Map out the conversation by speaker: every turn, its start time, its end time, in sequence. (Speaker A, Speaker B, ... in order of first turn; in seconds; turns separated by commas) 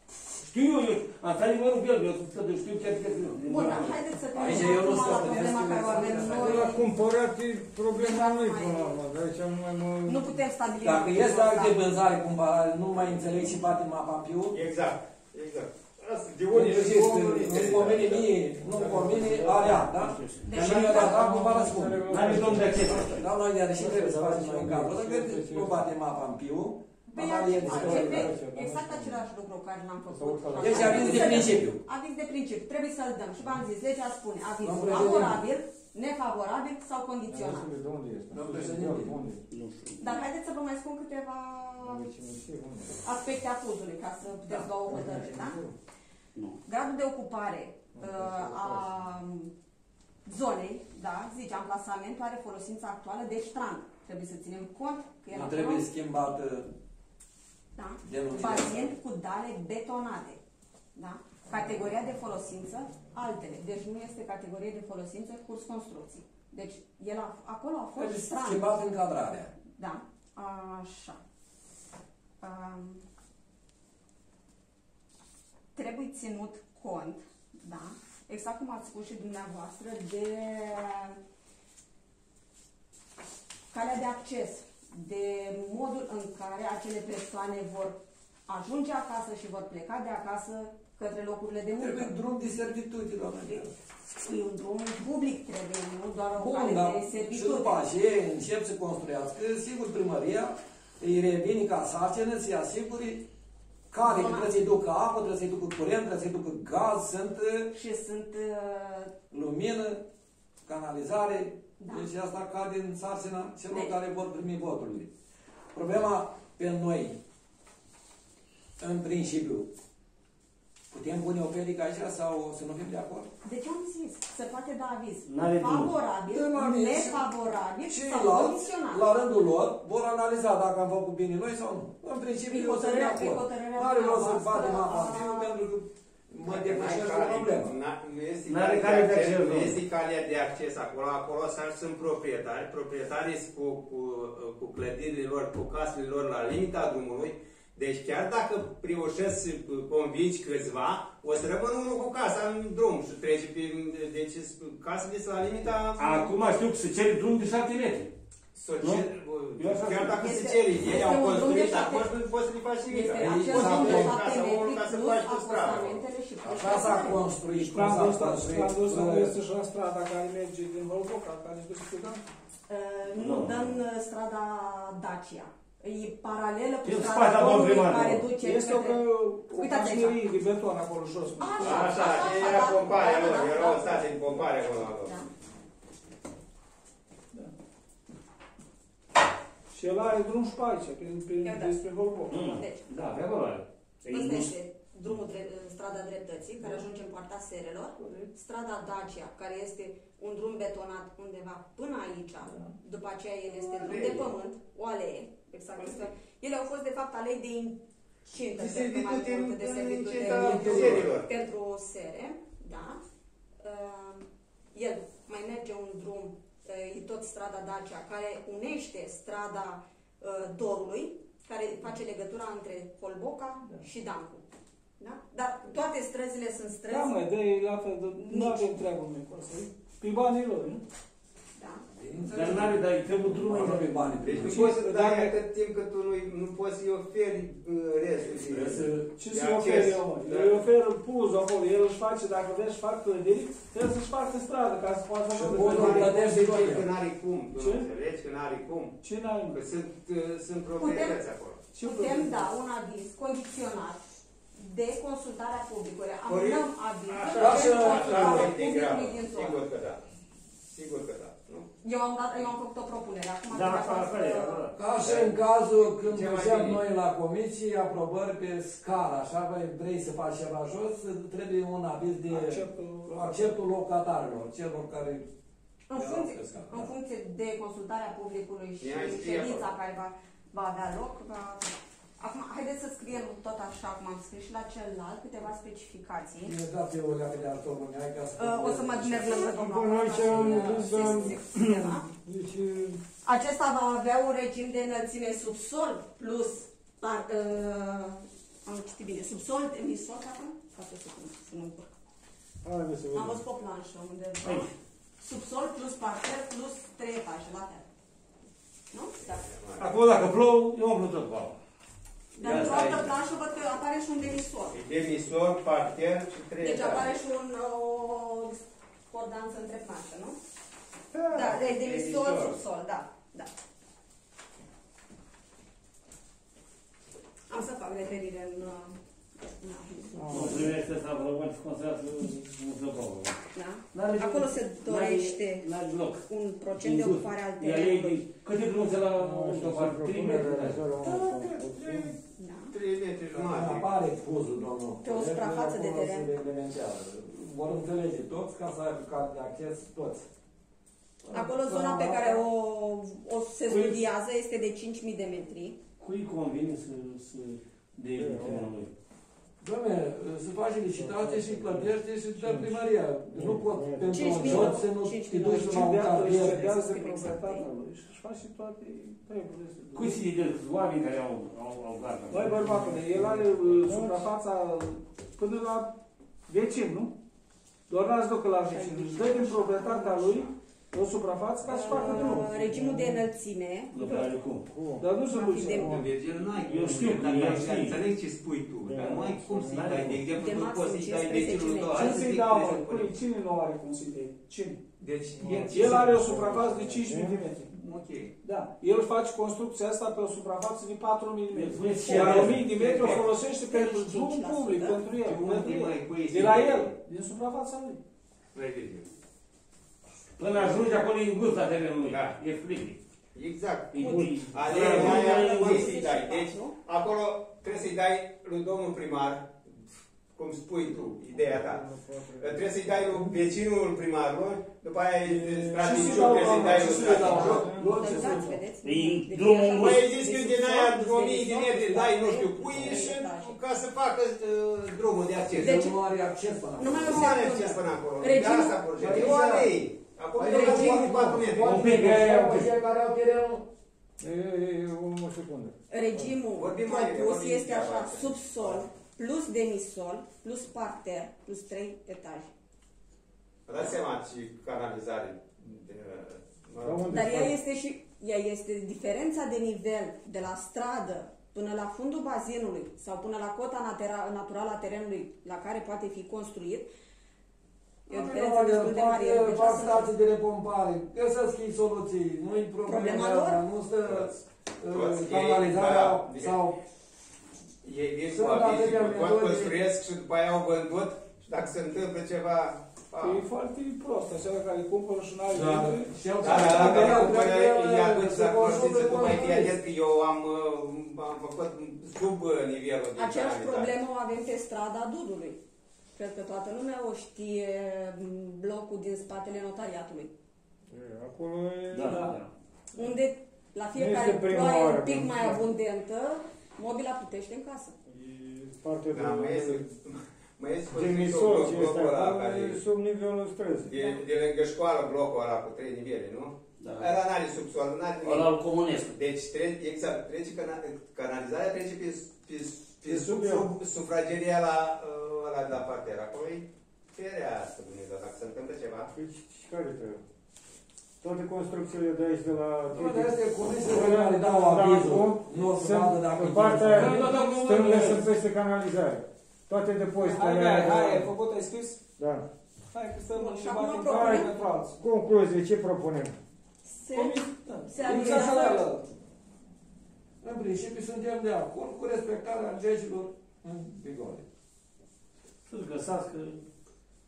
Speaker A: 0.4-4.0, Speaker B: 3.4-6.9, Speaker C: 4.3-6.8, Speaker D: 6.3-10.4, Speaker B: 8.0-9.0, Speaker B: 10.1-11.8, Speaker C: 10.8-14.6, Speaker E: 14.5-19.3, Speaker C: 16.5-28.4, Speaker F: 19.4-20.2, Speaker A: 20.0-21.1, Speaker B: 20.4-21.5, Speaker D: 20.9-23.0, Speaker A: 22.1-23.2, Speaker D: 23.7-25.8, Speaker B: 27.1-37.7, Speaker D: 27.5-29.2, Speaker D: 30.1-31.5, Speaker C: 30.6-31.8, Speaker C: 34.6-35.5, Speaker D: 37.3-39.4, Speaker C: 38.3-39.2, Speaker F: 39.5-40.2, Speaker B: 40.0-42.0, Speaker D: 41.8-43.0, Speaker B: 43.0-45.6, Speaker D: 44.6-45.8, Speaker F: 46.4-46.6, Speaker B: 46.7-49.5, Speaker D: 48.0-49.0, Speaker B: 50.2-55.9, Speaker C: 55.3-56.7, Speaker B: 57.8-60.4, Speaker C: 58.0-58.9, Speaker B: 61.0-68.7, Speaker C: 68.0-69.5, Speaker B: 69.7-71.2, Speaker B: 72.4-73.0, Speaker B: 75.8-81.2, Speaker B: 83.7-92.2, Speaker C: 91.8-93.7, Speaker B: 94.2-97.9, Speaker C: 96.4-103.2, Speaker C: 103.9-107.7, Speaker B: 104.0-104.5, Speaker B: 107.7-109.1, Speaker C: 109.3-110.0, Speaker C: 110.7-115.1, Speaker B: 111.8-112.1, Speaker B: 113.7-114.0, Speaker C: 115.7-117.2, Speaker C: 118.8-119.7, Speaker C: 120.9-123.3, Speaker B: 123.4-129.1, Speaker A: 125.3-125.9, Speaker C: 126.3-127.2, Speaker C: 127.9-137.8, Speaker B: 132.5-135.6, Speaker E: 136.4-156.3, Speaker A: 138.5-139.8, Speaker A: 156.0-158.1, Speaker E: 158.5-166.0, Speaker A: 159.6-160.2, Speaker B: 160.0-162.2, Speaker B: 162.8-167.3, Speaker C: 163.2-164.2, Speaker C: 166.4-169.4, Speaker G: 167.5-172.2, Speaker B: 172.7-180.2, Speaker A: 173.2-173.8, Speaker A: 176.8-178.3, Speaker G: 178.3-182.0, Speaker B: 181.4-184.5, Speaker E: 181.6-185.2, Speaker B: 185.0-185.3, Speaker G: 189.7-192.6, Speaker B: 191.4-191.8, Speaker A: 192.3-193.7, Speaker B: 192.5-192.9, Speaker F: 194.1-194.5, Speaker B: 194.1-213.0, Speaker G: 196.6-196.9, Speaker G: 198.0-198.3, Speaker G: 202.5-202.8, Speaker E: 203.6-204.3, Speaker E: 208.6-211.3, Speaker C: 210.2-211.2, Speaker B: 213.6-224.4, Speaker B: 225.0-227.2, Speaker G: 226.9-230.8, Speaker B: 228.3-228.7, Speaker B: 231.6-231.8, Speaker C: 231.9-234.8, Speaker A: 232.3-233.9, Speaker E: 234.2-240.7, Speaker G: 234.4-235.4, Speaker C: 238.4-239.1, Speaker G: 239.1-246.5, Speaker C: 245.3-246.9, Speaker E: 245.6-251.7, Speaker G: 247.6-247.9, Speaker G: 249.0-249.6, Speaker B: 250.8-251.2, Speaker G: 251.7-252.5, Speaker B: 251.8-254.0, Speaker B: 254.6-259.6, Speaker E: 256.3-260.0, Speaker C: 257.3-258.6, Speaker E: 260.6-261.7, Speaker B: 261.8-264.7, Speaker A: 263.5-264.8, Speaker C: 264.7-275.3, Speaker E: 265.0-266.9, Speaker G: 272.3-273.3, Speaker B: 275.9-286.6, Speaker C: 275.9-276.9, Speaker E: 278.8-279.7, Speaker C: 286.4-289.5, Speaker B: 288.4-292.1, Speaker D: 289.3-293.0, Speaker C: 290.4-290.8, Speaker B: 293.2-301.9, Speaker D: 302.6-303.4, Speaker B: 303.1-307.9, Speaker A: 304.4-304.7, Speaker B: 308.9-309.4, Speaker E: 309.4-310.0, Speaker A: 309.8-311.6, Speaker B: 312.4-314.7, Speaker E: 312.4-313.1, Speaker A: 312.5-312.9, Speaker E: 314.7-317.1, Speaker B: 316.6-320.4, Speaker E: 321.1-322.6, Speaker B: 321.3-323.5, Speaker B: 327.5-330.4, Speaker D: 330.1-330.8, Speaker A: 330.3-333.4, Speaker B: 333.5-335.7, Speaker A: 333.9-340.9, Speaker B: 336.3-338.2, Speaker D: 339.1-342.1, Speaker E: 341.1-342.0, Speaker B: 342.4-342.8, Speaker E: 342.7-343.9, Speaker C: 343.3-350.3, Speaker B: 345.0-346.3, Speaker C: 351.3-352.4, Speaker B: 351.3-355.8, Speaker A: 356.0-358.9, Speaker D: 358.1-358.7, Speaker C: 359.6-366.6, Speaker D: 360.9-364.7, Speaker B: 364.1-367.7, Speaker G: 364.4-364.7, Speaker G: 365.4-370.2, Speaker A: 369.9-372.8, Speaker G: 372.3-375.9, Speaker D: 372.5-374.3, Speaker G: 376.5-377.1, Speaker G: 377.9-382.9, Speaker B: 378.7-380.5, Speaker B: 381.6-383.9, Speaker D: 381.9-383.2, Speaker A: 383.9-384.7, Speaker G: 384.0-384.4, Speaker D: 384.7-386.1, Speaker G: 385.0-385.9, Speaker B: 385.3-386.0, Speaker E: 385.8-393.2, Speaker A: 386.6-388.0, Speaker D: 388.8-390.2, Speaker A: 389.7-390.1, Speaker B: 390.3-392.3, Speaker G: 391.9-394.8, Speaker E: 395.0-396.0, Speaker D: 395.4-397.5, Speaker G: 395.4-397.7, Speaker E: 397.7-398.3, Speaker G: 398.4-408.0, Speaker A: 401.5-402.8, Speaker B: 402.1-402.4, Speaker E: 402.2-403.3, Speaker B: 403.0-405.2, Speaker E: 405.2-407.0, Speaker E: 408.5-409.1, Speaker A: 410.4-413.0, Speaker E: 412.0-412.4, Speaker E: 413.4-419.6, Speaker A: 413.9-415.9, Speaker F: 414.0-414.9, Speaker D: 414.0-414.5, Speaker B: 414.8-416.8, Speaker E: 420.4-421.9, Speaker D: 420.9-423.5, Speaker E: 422.4-427.7, Speaker D: 425.2-428.2, Speaker G: 425.8-428.3, Speaker C: 427.0-428.6, Speaker B: 427.2-433.6, Speaker F: 428.8-430.1, Speaker E: 429.8-435.8, Speaker C: 435.6-437.4, Speaker B: 435.6-436.0, Speaker B: 436.8-439.5, Speaker E: 436.9-442.0, Speaker C: 438.9-439.7, Speaker C: 440.4-443.7, Speaker B: 440.4-441.3, Speaker A: 441.6-442.7, Speaker D: 444.2-446.3, Speaker B: 445.9-452.5, Speaker E: 446.6-448.9, Speaker E: 453.7-457.2, Speaker D: 456.8-457.6, Speaker B: 457.1-466.9, Speaker B: 468.1-470.1, Speaker C: 468.1-476.8, Speaker B: 472.9-473.6, Speaker E: 474.0-476.6, Speaker E: 477.8-483.4, Speaker C: 478.3-479.8, Speaker G: 483.2-487.6, Speaker C: 485.5-489.8, Speaker E: 486.4-493.9, Speaker B: 493.2-495.6, Speaker B: 496.2-500.3, Speaker D: 500.9-502.4, Speaker A: 501.9-502.3, Speaker G: 502.1-502.4, Speaker F: 502.2-502.4, Speaker B: 503.0-507.9, Speaker D: 503.9-505.6, Speaker D: 508.1-509.9, Speaker E: 509.1-512.8, Speaker D: 510.9-514.0, Speaker E: 513.8-529.1, Speaker F: 516.8-517.2, Speaker F: 518.2-519.2, Speaker D: 523.0-523.7, Speaker D: 529.1-530.2, Speaker D: 531.2-541.3, Speaker C: 532.9-537.4, Speaker A: 536.9-538.2, Speaker G: 537.2-537.6, Speaker G: 540.2-542.0, Speaker D: 542.2-542.5, Speaker G: 542.9-545.0, Speaker B: 543.3-544.5, Speaker D: 544.1-546.4, Speaker B: 546.9-548.9, Speaker G: 547.1-549.0, Speaker C: 550.4-554.4, Speaker A: 555.7-556.6